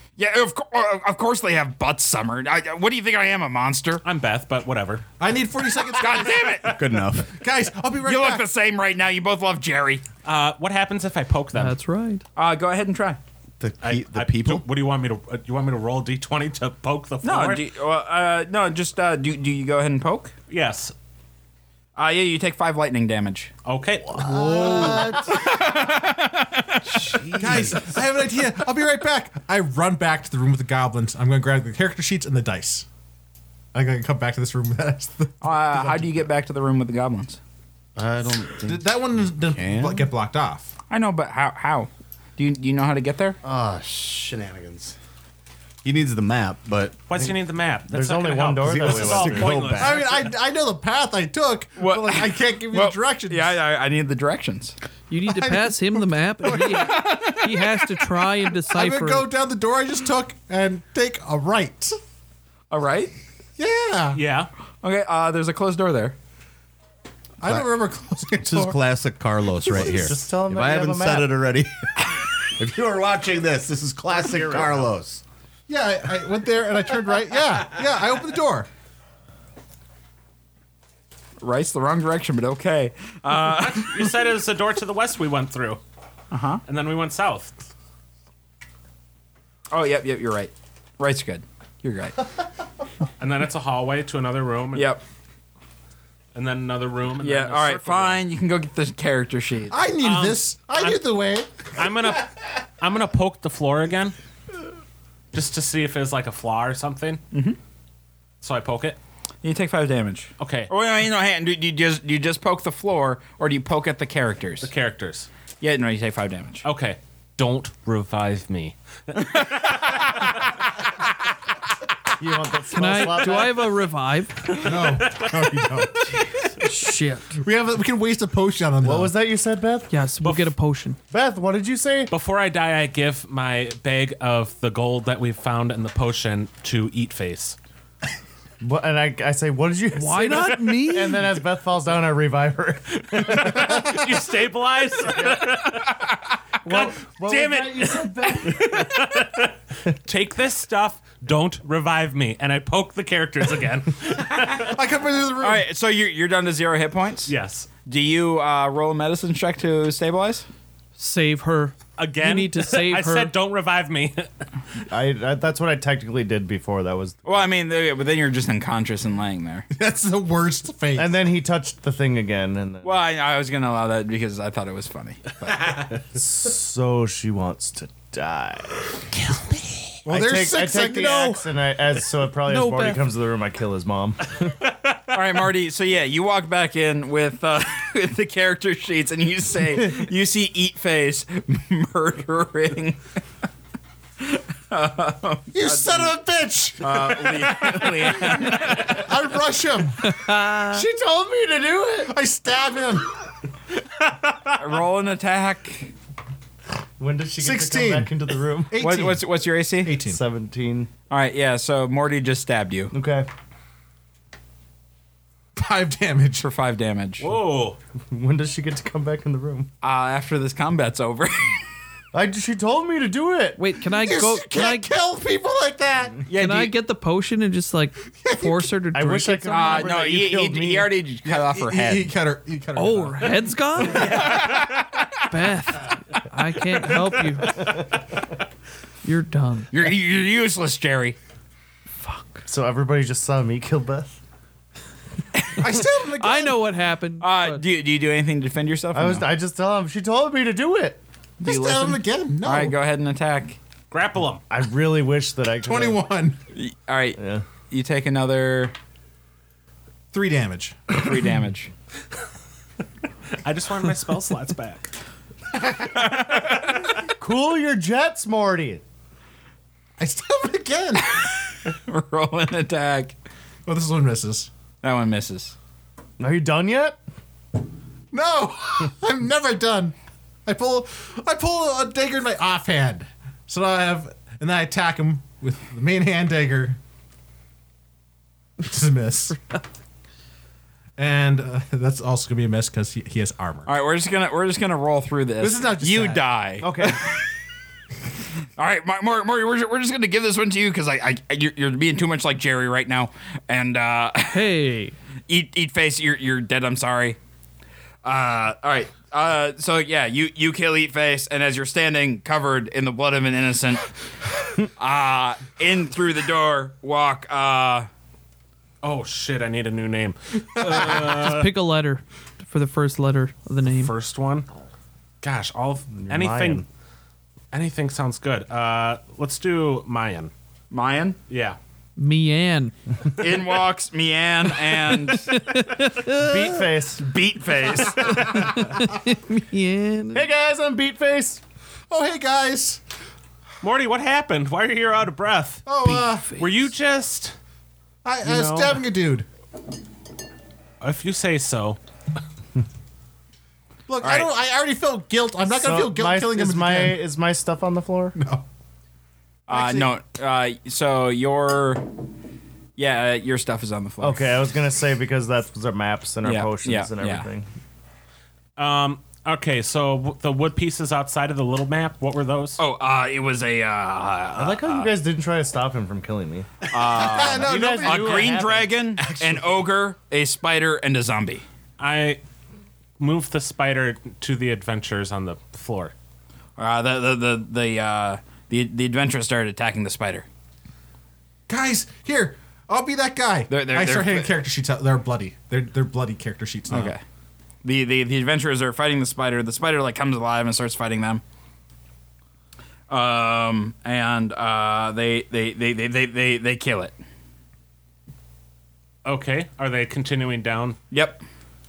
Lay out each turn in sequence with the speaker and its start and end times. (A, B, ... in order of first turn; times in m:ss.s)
0:00.2-0:04.0 A
0:04.0-0:05.0 B
0:05.2-0:06.8 C
0:05.9-0:06.8 A
0:06.0-0:06.8 B
0:06.7-0:07.4 D
0:07.3-0:08.4 C
0:08.0-0:10.0 A
0:10.2-0:11.8 B
0:11.5-0:12.2 E
0:12.4-0:13.2 A
0:13.6-0:14.6 D
0:13.8-0:17.6 B
0:17.2-0:20.3 A
0:20.5-0:20.9 B
0:22.0-0:23.5 A
0:23.6-0:24.9 B
0:24.1-0:25.4 D
0:24.2-0:25.9 C
0:25.0-0:27.2 A
0:26.9-0:28.1 D
0:27.4-0:32.9 C
0:33.7-0:36.2 C
0:35.4-0:37.4 A
0:38.0-0:40.1 D
0:38.6-0:40.7 C
0:40.9-0:43.4 A
0:43.4-0:45.0 D
0:45.8-0:47.4 D
0:47.1-0:50.2 B
0:47.9-0:49.6 F
0:48.6-0:50.3 D
0:49.8-0:53.6 C
0:51.8-0:54.8 A
0:55.1-0:59.3 E
0:55.3-1:02.0 C
1:02.7-1:03.1 A
1:03.6-1:04.2 C
1:04.2-1:04.5 B
1:04.8-1:06.2 A
1:07.4-1:08.8 C
1:08.4-1:15.2 D
1:09.6-1:11.3 F
1:14.3-1:14.8 B
1:15.7-1:18.7 C
1:21.4-1:24.1 A
1:23.5-1:25.8 B
1:26.3-1:26.6 A
1:26.6-1:27.6 B
1:29.7-1:32.2 A
1:33.2-1:34.9 B
1:34.7-1:35.0 A
1:36.4-1:38.2 B
1:37.2-1:39.8 A
1:39.7-1:41.7 C
1:40.0-1:41.0 B
1:41.7-1:44.2 B
1:45.3-1:47.2 B
1:47.3-1:47.6 A
1:48.4-1:49.0 B
1:49.4-1:54.7 A
1:50.4-1:50.7 B
1:54.6-1:55.3 B
1:55.6-1:56.6 A
1:56.6-2:00.3 B
1:59.2-2:00.3 A
2:02.2-2:03.8 F
2:02.7-2:04.7 E
2:04.5-2:06.3 C
2:04.6-2:05.8 B
2:06.7-2:07.4 E
2:07.3-2:09.1 C
2:08.8-2:09.9 F
2:09.9-2:11.0 E
2:10.2-2:10.5 B
2:11.1-2:12.1 F
2:12.1-2:17.6 B
2:18.6-2:24.0 F
2:19.9-2:21.3 E
2:23.1-2:26.0 B
2:25.2-2:25.4 F
2:26.6-2:29.0 F
2:26.6-2:34.8 B
2:34.6-2:35.6 C
2:35.4-2:37.3 A
2:37.3-2:37.7 B
2:37.9-2:40.5 A
2:41.0-2:43.3 E
2:42.0-2:44.3 B
2:44.9-2:47.3 F
2:47.2-2:49.7 A
2:49.7-2:51.1 C
2:51.0-2:53.0 F
2:52.8-2:55.8 A
2:55.5-2:55.8 B
2:56.1-2:58.9 F
2:59.2-2:59.8 B
3:00.0-3:01.4 C
3:00.1-3:04.2 F
3:02.4-3:03.0 E
3:05.1-3:13.0 A
3:14.2-3:16.2 A
3:15.5-3:20.2 C
3:16.8-3:19.0 A
3:20.0-3:20.8 E
3:20.6-3:22.2 F
3:22.0-3:23.1 C
3:24.6-3:25.9 A
3:27.0-3:28.8 F
3:27.4-3:28.1 C
3:28.7-3:29.3 C
3:28.8-3:30.0 A
3:29.8-3:30.2 C
3:30.0-3:30.9 F
3:31.1-3:32.9 A
3:32.9-3:33.3 F
3:35.6-3:36.5 C
3:36.4-3:37.3 A
3:37.2-3:37.8 B
3:38.1-3:39.7 F
3:39.8-3:41.6 A
3:42.1-3:43.6 F
3:43.6-3:44.9 E
3:44.0-3:46.3 C
3:46.3-3:50.0 E
3:46.4-3:46.7 A
3:48.0-3:48.7 C
3:48.9-3:50.9 F
3:49.5-3:52.1 A
3:51.3-3:53.6 C
3:52.7-3:54.3 E
3:53.9-3:54.8 B
3:54.0-3:55.2 A
3:55.3-3:57.8 E
3:57.6-3:57.9 F
3:59.0-3:59.7 E
3:59.7-4:01.2 A
4:02.0-4:02.4 E
4:02.5-4:04.2 F
4:05.6-4:06.6 C
4:05.8-4:07.6 E
4:07.2-4:09.3 A
4:08.9-4:11.0 F
4:11.4-4:13.6 A
4:11.4-4:12.8 C
4:13.9-4:14.4 B
4:14.5-4:16.0 F
4:15.6-4:16.4 C
4:16.6-4:17.2 A
4:17.2-4:17.4 F
4:17.7-4:18.7 A
4:20.1-4:20.9 C
4:20.9-4:21.7 A
4:23.4-4:24.9 B
4:25.8-4:27.0 A
4:27.2-4:28.8 F
4:30.0-4:31.1 C
4:31.2-4:33.1 A
4:33.7-4:34.5 C
4:34.8-4:35.6 A
4:36.2-4:37.0 F
4:38.1-4:40.0 C
4:40.5-4:46.8 C
4:48.6-4:49.4 C
4:51.0-4:53.7 C
4:53.7-4:57.2 A
4:55.4-4:56.2 C
4:56.6-4:57.0 F
4:58.6-5:04.5 A
5:04.3-5:04.9 E
5:05.3-5:07.2 A
5:08.0-5:13.9 A
5:14.6-5:17.9 A
5:18.8-5:21.5 B
5:20.6-5:23.9 E
5:23.8-5:24.5 B
5:25.2-5:26.6 B
5:25.9-5:26.7 F
5:27.5-5:30.3 B
5:30.7-5:31.2 A
5:31.3-5:31.6 B
5:32.0-5:32.7 E
5:33.2-5:35.4 A
5:34.9-5:36.6 E
5:36.1-5:37.1 F
5:37.0-5:38.4 A
5:38.3-5:40.3 E
5:40.1-5:41.4 F
5:41.9-5:42.8 C
5:43.6-5:45.7 B
5:45.7-5:46.4 C
5:45.8-5:46.5 E
5:46.4-5:47.4 B
5:48.0-5:49.3 C
5:48.2-5:48.8 B
5:50.8-5:51.8 B
5:53.9-5:57.0 C
5:54.0-5:54.3 A
5:55.5-5:58.2 F
5:58.2-5:58.4 C
5:59.5-6:01.8 A
5:59.5-5:59.9 C
6:02.8-6:04.3 A
6:04.0-6:07.5 F
6:06.2-6:07.3 A
6:08.6-6:12.6 B
6:12.6-6:14.9 A
6:14.4-6:18.7 F
6:16.7-6:21.4 A
6:16.8-6:18.4 C
6:19.0-6:19.7 D
6:21.8-6:22.2 B
6:23.0-6:25.9 B
6:26.6-6:30.3 A
6:31.5-6:37.0 C
6:33.5-6:34.3 A
6:36.7-6:37.0 A
6:37.6-6:41.2 A
6:42.9-6:47.0 A
6:49.0-6:50.8 B
6:50.9-6:51.2 A